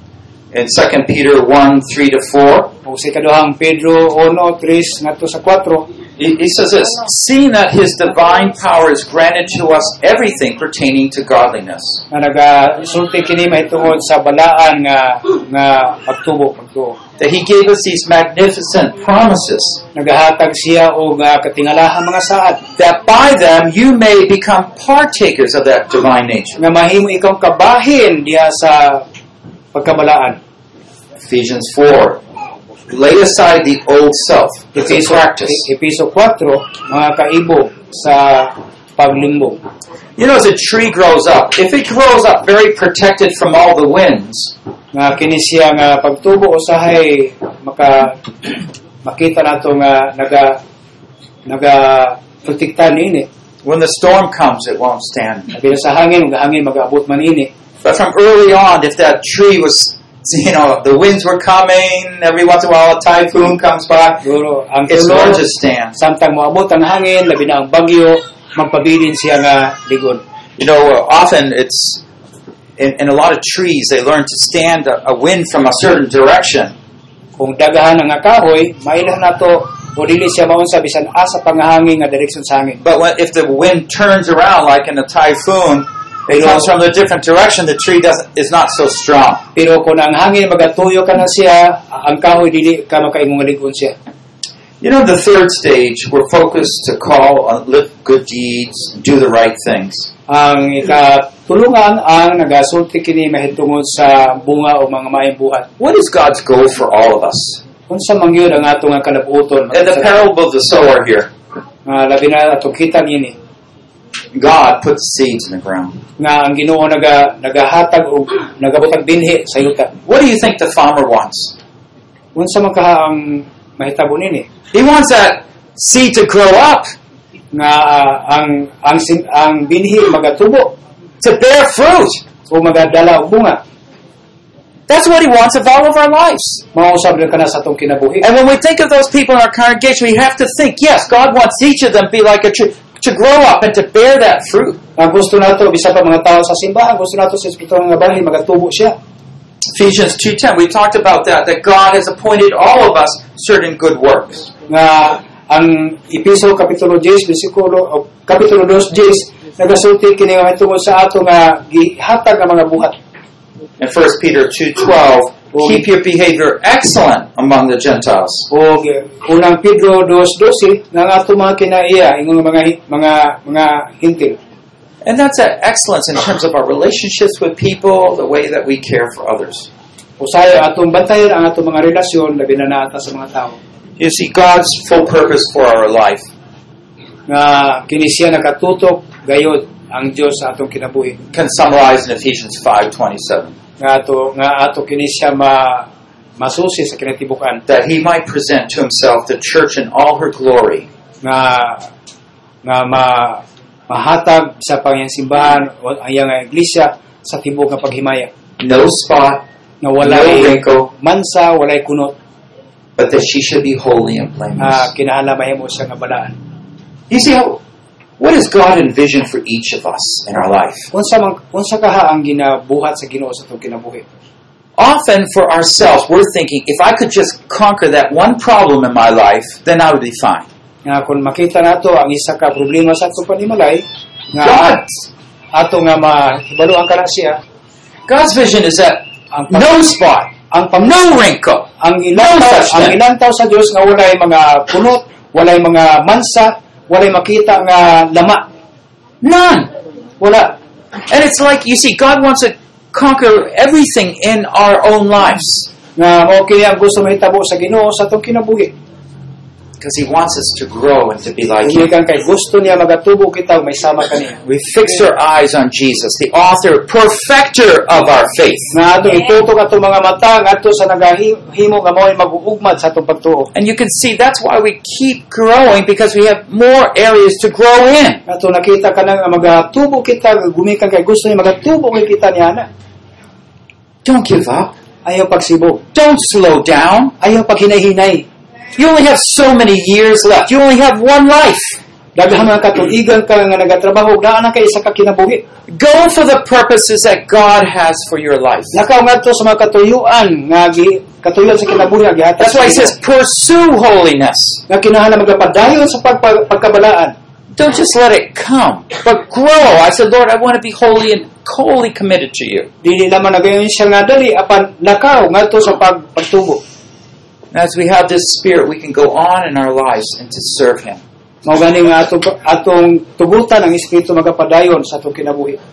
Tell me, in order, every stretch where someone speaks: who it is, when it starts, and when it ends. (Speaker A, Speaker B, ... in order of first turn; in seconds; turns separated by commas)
Speaker A: 0.5-2.7, Speaker B: 2.8-5.8, Speaker A: 6.2-12.0, Speaker B: 12.1-17.0, Speaker A: 17.2-19.8, Speaker B: 19.9-22.6, Speaker A: 22.8-26.6, Speaker B: 26.6-29.0, Speaker B: 29.7-30.4, Speaker A: 31.2-32.2, Speaker A: 32.9-35.7, Speaker B: 34.7-39.6, Speaker A: 40.2-44.5, Speaker B: 44.9-50.6, Speaker B: 51.5-53.3, Speaker A: 53.6-55.5, Speaker B: 55.5-57.5, Speaker A: 57.8-64.2, Speaker B: 64.2-70.2, Speaker A: 64.9-66.0, Speaker A: 70.6-72.0, Speaker A: 72.8-76.7, Speaker B: 77.4-82.8, Speaker A: 82.8-89.4, Speaker B: 86.3-86.7, Speaker B: 89.5-94.0, Speaker A: 94.8-100.1, Speaker B: 100.3-105.7, Speaker A: 105.8-107.6, Speaker B: 107.9-110.2, Speaker A: 109.7-111.3, Speaker B: 111.8-113.3, Speaker A: 114.3-116.0, Speaker B: 116.2-119.9, Speaker A: 120.0-121.5, Speaker B: 122.3-124.5, Speaker A: 124.7-126.9, Speaker B: 127.5-130.8, Speaker A: 131.2-132.2, Speaker B: 132.5-133.6, Speaker A: 134.9-136.6, Speaker B: 136.7-138.2, Speaker A: 138.2-144.8, Speaker B: 145.0-149.0, Speaker A: 149.7-154.5, Speaker B: 154.7-162.9, Speaker A: 163.8-168.5, Speaker B: 165.5-165.8, Speaker B: 168.5-174.4, Speaker A: 175.0-179.7, Speaker B: 180.2-183.6, Speaker A: 184.0-186.3, Speaker B: 187.3-191.2, Speaker A: 191.3-193.5, Speaker B: 193.8-197.6, Speaker A: 197.7-200.9, Speaker B: 201.2-201.9, Speaker B: 202.6-208.3, Speaker A: 208.6-209.4, Speaker B: 209.8-212.1, Speaker A: 210.0-210.9, Speaker A: 213.0-214.9, Speaker B: 214.6-216.4, Speaker A: 217.1-217.6, Speaker A: 218.2-220.9, Speaker B: 220.9-224.0, Speaker A: 224.8-230.4, Speaker B: 230.8-234.8, Speaker A: 234.4-235.1, Speaker B: 235.5-237.4, Speaker A: 238.1-243.0, Speaker B: 239.3-239.7, Speaker B: 240.5-240.9, Speaker B: 241.8-248.4, Speaker A: 249.2-249.7, Speaker B: 250.2-250.5, Speaker A: 251.1-255.7, Speaker B: 255.9-258.7, Speaker A: 259.8-261.9, Speaker B: 261.6-264.4, Speaker A: 264.4-268.7, Speaker B: 268.7-273.5, Speaker A: 273.5-278.2, Speaker B: 278.2-282.7, Speaker A: 284.0-284.7, Speaker B: 285.0-285.8, Speaker A: 285.9-287.1, Speaker B: 287.2-288.2, Speaker A: 288.8-291.8, Speaker B: 292.1-295.4, Speaker A: 295.7-298.8, Speaker B: 298.7-302.9, Speaker A: 302.4-304.6, Speaker B: 304.7-307.1, Speaker A: 307.5-312.7, Speaker B: 312.8-316.6, Speaker A: 317.5-321.0, Speaker B: 321.4-325.6